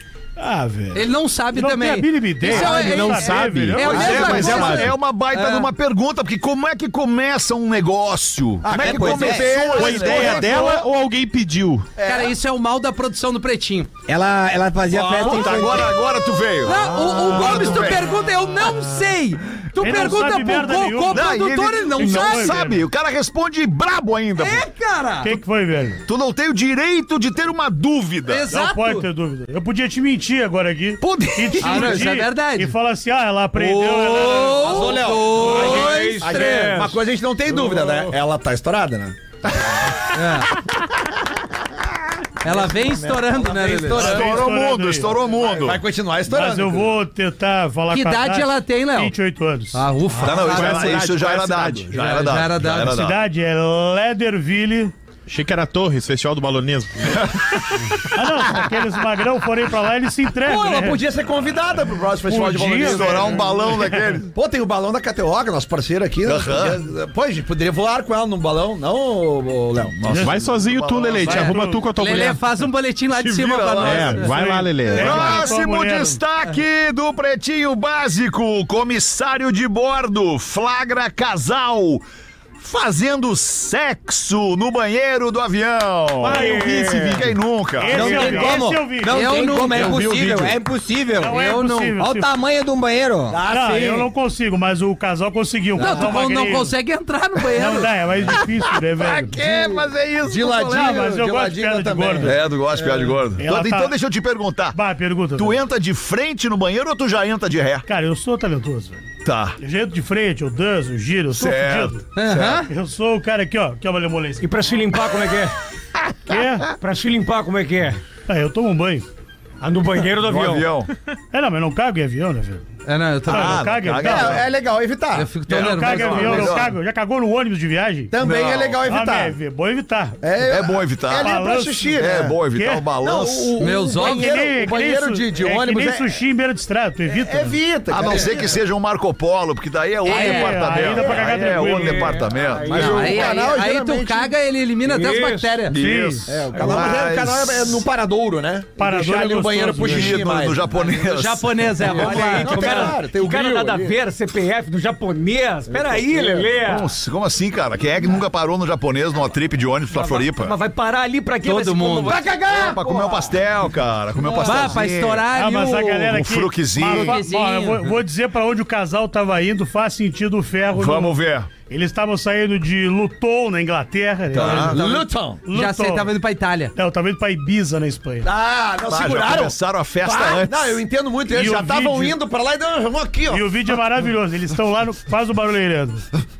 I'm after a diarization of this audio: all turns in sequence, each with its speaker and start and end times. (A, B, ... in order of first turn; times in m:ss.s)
0:00.4-0:04.9 A
0:00.9-0:05.7 B
0:02.5-0:04.9 C
0:03.7-0:10.8 D
0:08.6-0:10.7 E
0:08.8-0:09.7 F
0:09.7-0:11.9 C
0:12.0-0:12.3 E
0:12.0-0:13.9 B
0:14.1-0:15.9 F
0:14.9-0:18.0 D
0:16.6-0:22.7 B
0:19.8-0:21.3 A
0:21.1-0:24.6 D
0:22.0-0:22.8 A
0:24.4-0:25.3 B
0:25.2-0:26.0 A
0:26.0-0:28.5 D
0:28.2-0:29.1 B
0:28.5-0:34.8 A
0:31.0-0:31.7 D
0:31.6-0:32.7 B
0:31.7-0:32.1 E
0:33.6-0:39.2 E
0:33.8-0:36.9 B
0:35.3-0:37.0 G
0:37.6-0:37.9 G
0:40.1-0:40.5 B
0:42.4-0:44.2 B
0:42.4-0:44.5 E
0:43.9-0:45.8 D
0:43.9-0:45.2 A
0:45.3-0:46.9 E
0:46.3-0:49.8 A
0:47.9-0:49.1 B
0:49.7-0:50.9 B
0:50.2-0:53.2 D
0:50.3-0:51.9 C
0:51.9-0:53.0 B
0:52.8-0:54.9 A
0:55.3-0:57.3 C
0:58.1-1:01.0 A
1:00.4-1:03.5 E
1:02.3-1:03.8 A
1:02.8-1:04.3 D
1:04.3-1:10.0 E
1:06.2-1:06.8 D
1:10.0-1:11.6 D
1:10.0-1:10.4 A
1:10.1-1:12.4 C
1:11.2-1:11.8 A
1:12.0-1:14.3 B
1:13.1-1:14.3 D
1:13.8-1:15.4 C
1:13.9-1:16.2 A
1:14.8-1:22.0 D
1:22.6-1:28.3 D
1:26.2-1:27.3 C
1:26.3-1:26.7 A
1:26.3-1:27.2 G
1:27.8-1:29.3 A
1:27.9-1:31.4 F
1:28.0-1:28.6 G
1:29.1-1:30.5 B
1:31.2-1:32.3 A
1:31.2-1:32.0 B
1:32.0-1:33.4 F
1:33.3-1:34.1 E
1:33.5-1:36.7 A
1:35.8-1:37.9 B
1:37.6-1:39.4 A
1:39.0-1:41.0 D
1:39.4-1:43.1 E
1:40.6-1:42.4 A
1:42.2-1:44.8 D
1:43.4-1:44.0 A
1:44.7-1:45.6 A
1:45.3-1:47.8 D
1:47.9-1:49.1 A
1:49.2-1:49.6 D
1:49.6-1:54.5 A
1:51.3-1:52.6 D
1:52.1-1:52.7 B
1:54.4-1:55.5 G
1:56.3-1:56.7 A
1:56.8-1:58.0 G
1:58.3-1:59.0 A
1:59.6-2:00.7 G
2:00.2-2:00.9 D
2:01.3-2:02.7 A
2:02.8-2:03.6 B
2:03.2-2:04.4 A
2:03.3-2:04.4 D
2:04.0-2:06.5 E
2:05.1-2:06.6 B
2:05.5-2:08.2 A
2:05.9-2:06.7 D
2:08.1-2:09.3 E
2:08.2-2:08.8 D
2:08.8-2:10.2 A
2:10.2-2:12.4 E
2:10.4-2:11.3 D
2:11.1-2:12.8 A
2:12.0-2:13.6 D
2:13.0-2:16.1 E
2:13.6-2:14.5 B
2:13.6-2:17.6 A
2:17.1-2:18.4 E
2:17.9-2:23.3 D
2:20.0-2:20.8 B
2:20.0-2:22.3 A
2:22.4-2:23.2 G
2:22.6-2:24.3 E
2:22.7-2:25.8 B
2:24.8-2:25.6 G
2:25.7-2:27.8 D
2:25.7-2:26.4 A
2:26.2-2:30.8 E
2:28.8-2:30.3 A
2:29.8-2:32.1 D
2:31.0-2:33.1 B
2:31.8-2:34.0 E
2:31.9-2:36.9 G
2:35.7-2:36.5 E
2:36.6-2:40.5 D
2:39.9-2:42.8 G
2:41.4-2:42.3 B
2:42.0-2:43.4 E
2:42.5-2:44.9 D
2:44.3-2:46.2 B
2:44.4-2:45.2 G
2:45.3-2:51.2 A
2:46.1-2:47.2 D
2:46.8-2:47.9 B
2:50.7-2:51.5 D
2:51.7-2:54.8 A
2:54.3-2:54.8 D
2:54.4-2:55.5 E
2:54.4-2:56.7 B
2:55.5-2:56.1 A
2:56.7-2:58.3 A
2:58.2-3:03.5 E
2:58.9-3:00.8 D
3:01.3-3:02.2 A
3:03.3-3:06.1 A